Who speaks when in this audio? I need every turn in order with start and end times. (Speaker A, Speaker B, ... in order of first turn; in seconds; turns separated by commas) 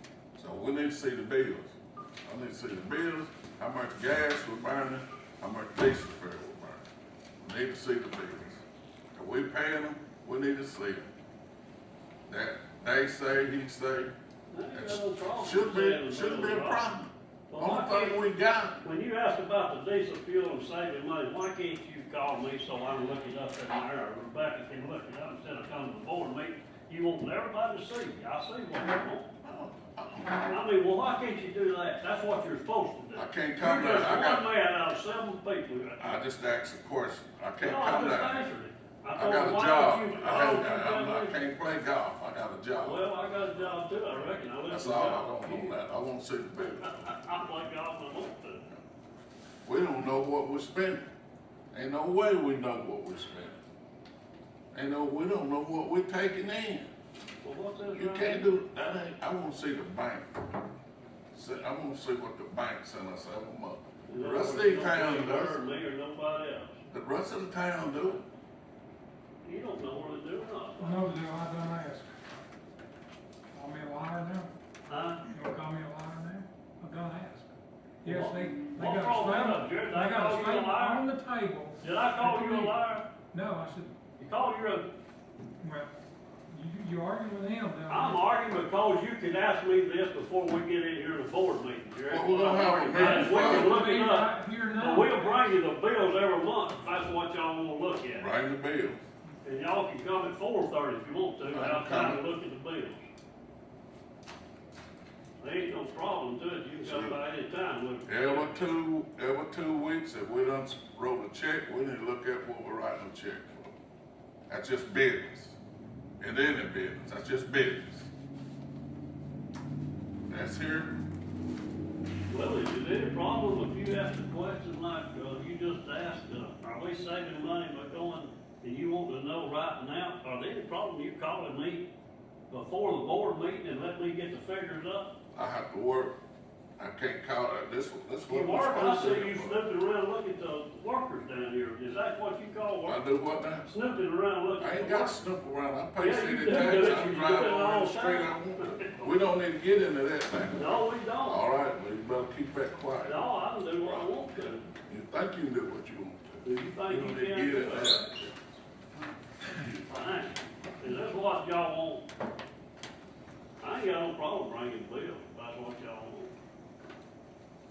Speaker A: 0.4-6.8, Speaker A: 7.4-8.6, Speaker A: 9.2-11.1, Speaker A: 12.3-14.1, Speaker B: 14.5-16.9, Speaker A: 14.7-18.8, Speaker B: 17.5-18.2, Speaker B: 18.8-29.3, Speaker A: 29.4-30.5, Speaker B: 30.4-36.2, Speaker A: 33.1-34.5, Speaker A: 36.0-38.4, Speaker B: 37.6-41.4, Speaker A: 39.1-43.8, Speaker B: 42.8-45.8, Speaker A: 44.6-46.9, Speaker B: 46.6-48.6, Speaker A: 49.6-51.0, Speaker A: 51.7-53.6, Speaker A: 54.7-56.9, Speaker B: 57.4-58.5, Speaker A: 57.9-60.3, Speaker A: 61.3-65.6, Speaker B: 64.1-66.8, Speaker A: 66.9-68.2, Speaker B: 69.4-71.0, Speaker C: 70.8-72.1, Speaker C: 73.5-74.5, Speaker B: 74.9-75.2, Speaker C: 75.3-84.0, Speaker B: 78.0-81.0, Speaker B: 81.8-83.1, Speaker B: 84.2-84.9, Speaker C: 85.6-85.9, Speaker C: 86.5-88.2, Speaker B: 87.9-98.3, Speaker A: 92.1-93.9, Speaker C: 92.9-95.5, Speaker A: 98.2-99.0, Speaker B: 99.4-103.0, Speaker A: 101.5-102.2, Speaker B: 105.4-108.6, Speaker A: 106.8-107.2, Speaker A: 108.1-113.8, Speaker A: 114.5-115.6, Speaker A: 116.2-118.1, Speaker A: 120.3-121.0, Speaker B: 122.3-131.9, Speaker B: 132.5-135.2, Speaker A: 135.3-136.1, Speaker A: 136.8-139.7, Speaker B: 138.3-143.0, Speaker A: 142.8-143.7, Speaker B: 143.6-145.2, Speaker A: 144.6-153.2, Speaker B: 146.0-149.1, Speaker B: 150.5-151.4, Speaker B: 153.0-154.7, Speaker A: 153.8-158.3, Speaker B: 156.4-158.2, Speaker B: 159.8-162.1, Speaker B: 163.6-166.3